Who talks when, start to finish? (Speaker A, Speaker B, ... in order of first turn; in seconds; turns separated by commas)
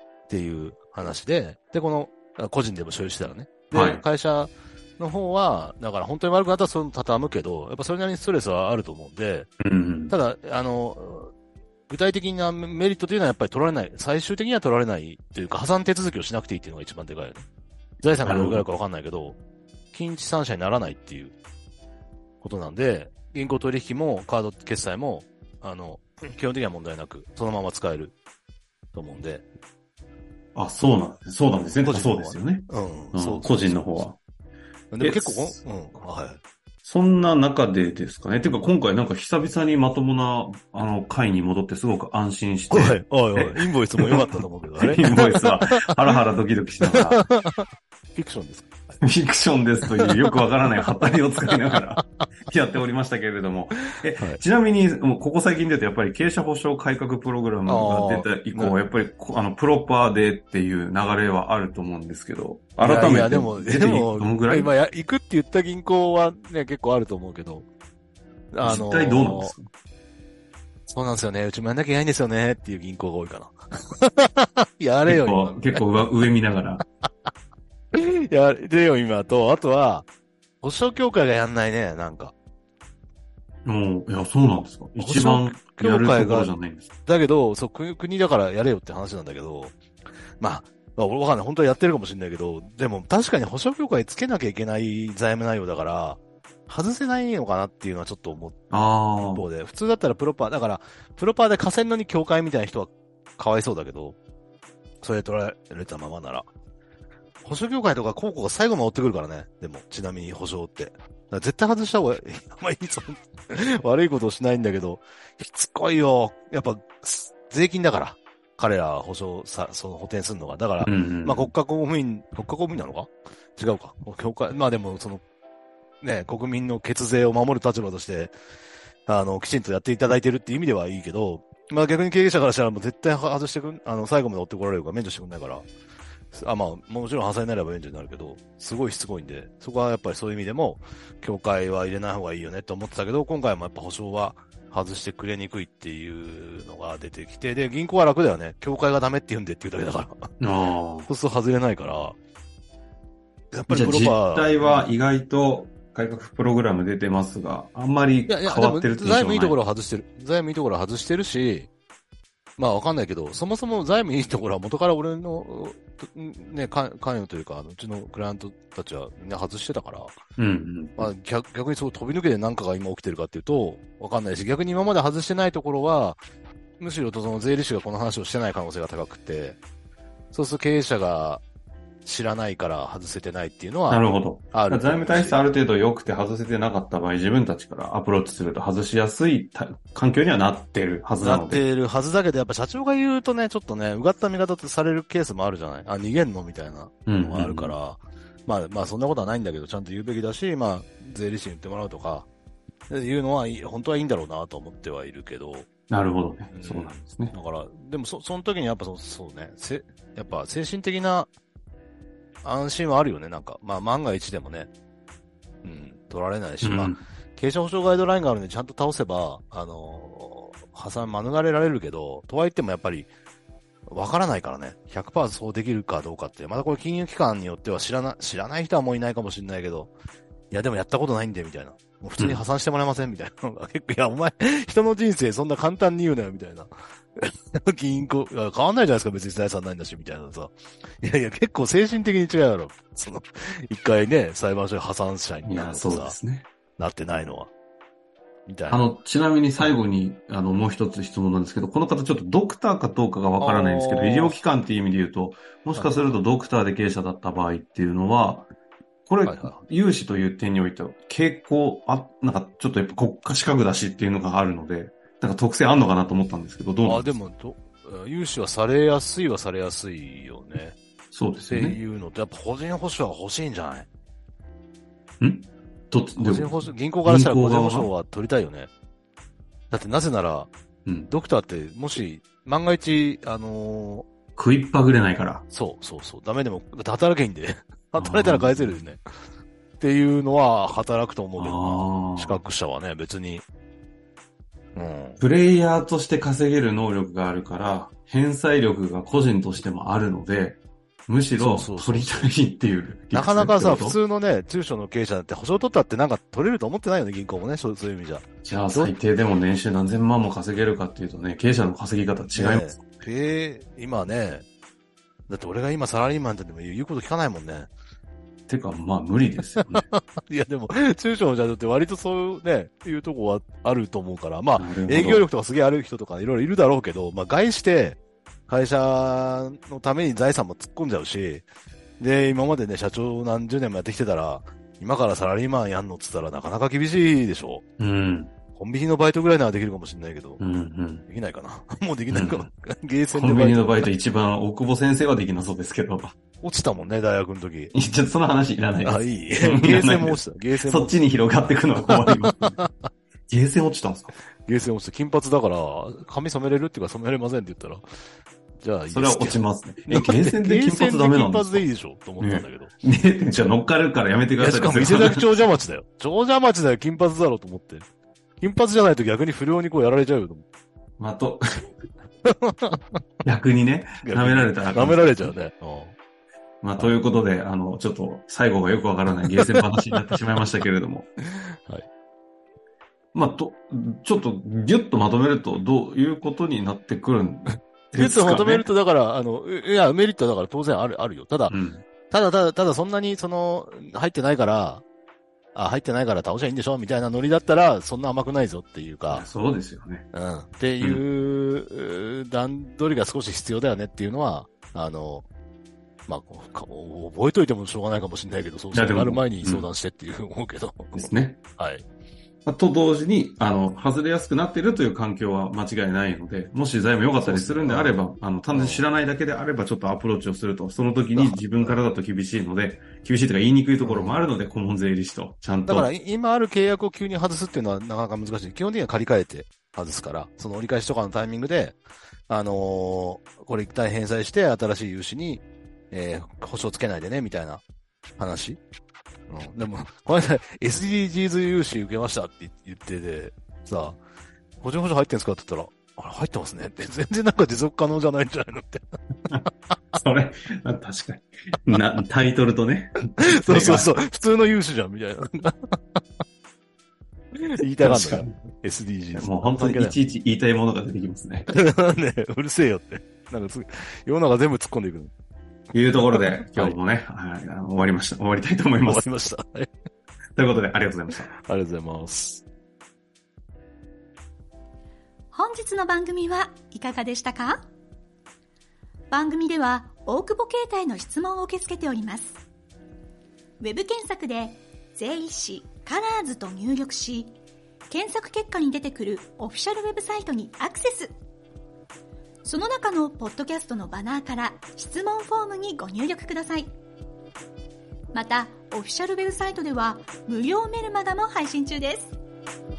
Speaker A: 0.3-9.5, Speaker B: 3.7-4.0, Speaker B: 9.6-10.1, Speaker A: 10.1-11.3, Speaker A: 11.9-17.4, Speaker A: 18.0-19.4, Speaker B: 18.2-18.6, Speaker A: 19.9-21.4, Speaker A: 22.4-28.2, Speaker A: 28.9-29.4, Speaker B: 30.6-34.2, Speaker A: 31.8-34.1, Speaker A: 34.9-36.4, Speaker B: 35.0-35.6, Speaker B: 36.8-47.2, Speaker A: 42.7-46.2, Speaker A: 46.8-49.0, Speaker B: 49.0-64.7, Speaker A: 49.9-50.3, Speaker A: 51.0-51.8, Speaker A: 57.7-58.8, Speaker A: 62.8-67.7, Speaker A: 68.5-69.5, Speaker B: 68.6-69.7, Speaker A: 70.9-76.1, Speaker B: 75.1-76.8, Speaker A: 77.9-80.1, Speaker A: 80.6-82.3, Speaker B: 83.7-86.9, Speaker A: 85.0-86.5, Speaker A: 87.1-89.8, Speaker A: 90.4-98.7, Speaker B: 98.7-99.4, Speaker A: 99.2-104.2, Speaker A: 105.0-106.5, Speaker A: 107.4-125.2, Speaker B: 120.8-121.5, Speaker A: 126.0-128.3, Speaker A: 129.1-135.7, Speaker A: 136.3-150.3, Speaker B: 150.4-151.1, Speaker A: 151.1-152.2, Speaker A: 153.5-154.9, Speaker B: 153.7-159.6, Speaker A: 158.3-161.7, Speaker A: 162.6-170.2, Speaker B: 170.4-171.1, Speaker A: 171.0-176.2, Speaker A: 176.8-179.6, Speaker A: 180.3-181.4, Speaker A: 182.1-185.4, Speaker B: 183.9-191.6, Speaker A: 191.2-202.3, Speaker B: 197.1-197.8, Speaker A: 202.9-205.7, Speaker B: 205.9-207.3, Speaker A: 206.5-211.3, Speaker A: 212.4-214.7, Speaker A: 215.6-223.1, Speaker B: 216.6-217.0, Speaker A: 223.9-229.9, Speaker A: 230.5-246.2, Speaker B: 245.4-246.5, Speaker A: 246.8-247.5, Speaker A: 248.4-248.9, Speaker B: 248.7-258.5, Speaker A: 253.4-254.4, Speaker A: 255.8-256.1, Speaker B: 259.1-267.2, Speaker A: 259.3-259.6, Speaker A: 266.8-270.8, Speaker B: 271.1-271.8, Speaker A: 271.5-273.9, Speaker B: 275.2-277.9, Speaker A: 276.2-278.7, Speaker A: 279.7-280.5, Speaker B: 280.9-281.1, Speaker A: 281.1-284.1, Speaker B: 284.4-285.4, Speaker A: 285.5-289.0, Speaker B: 288.0-288.8, Speaker A: 289.8-293.4, Speaker B: 291.4-292.4, Speaker A: 294.8-295.2, Speaker B: 295.2-304.0, Speaker A: 301.4-302.3, Speaker A: 303.1-308.9, Speaker B: 308.4-312.8, Speaker A: 312.3-314.4, Speaker A: 315.3-317.7, Speaker B: 318.5-319.9, Speaker A: 319.7-331.4, Speaker B: 324.6-325.2, Speaker A: 332.0-337.6, Speaker B: 337.8-338.3, Speaker A: 338.5-340.4, Speaker B: 340.4-341.0, Speaker A: 341.1-343.9, Speaker B: 342.1-342.5, Speaker B: 343.1-346.1, Speaker A: 346.4-347.7, Speaker B: 347.7-352.6, Speaker A: 348.8-351.0, Speaker A: 351.9-352.9, Speaker B: 353.3-354.1, Speaker A: 354.4-357.8, Speaker A: 358.6-362.7, Speaker B: 358.9-361.7, Speaker B: 362.2-365.3, Speaker A: 364.4-367.8, Speaker A: 368.4-370.4, Speaker B: 371.0-371.7, Speaker A: 372.2-372.8, Speaker B: 373.2-375.3, Speaker A: 374.0-375.9, Speaker B: 376.6-381.1, Speaker A: 379.2-380.0, Speaker A: 381.3-381.9, Speaker B: 383.1-388.7, Speaker A: 387.9-391.6, Speaker B: 391.5-391.8, Speaker A: 392.1-394.8, Speaker A: 395.6-399.3, Speaker B: 399.1-400.1, Speaker A: 400.1-405.3, Speaker A: 406.1-411.9, Speaker B: 408.7-409.7, Speaker B: 410.9-411.4, Speaker B: 412.4-425.9, Speaker A: 417.2-418.8, Speaker A: 421.2-421.8, Speaker A: 423.8-424.3, Speaker A: 425.6-431.8, Speaker A: 432.3-437.6, Speaker A: 438.2-438.6, Speaker A: 439.3-444.0, Speaker A: 444.6-449.0, Speaker B: 449.9-453.9, Speaker A: 453.2-456.0, Speaker A: 457.4-460.0, Speaker B: 457.8-458.4, Speaker B: 459.1-461.5, Speaker A: 461.5-465.1, Speaker B: 465.7-469.1, Speaker A: 466.1-466.8, Speaker A: 468.8-469.7, Speaker B: 470.4-471.3, Speaker A: 471.3-472.4, Speaker C: 475.3-477.6, Speaker C: 479.1-482.4, Speaker C: 483.6-487.3, Speaker C: 487.9-491.1, Speaker C: 492.4-496.7, Speaker C: 498.1-502.2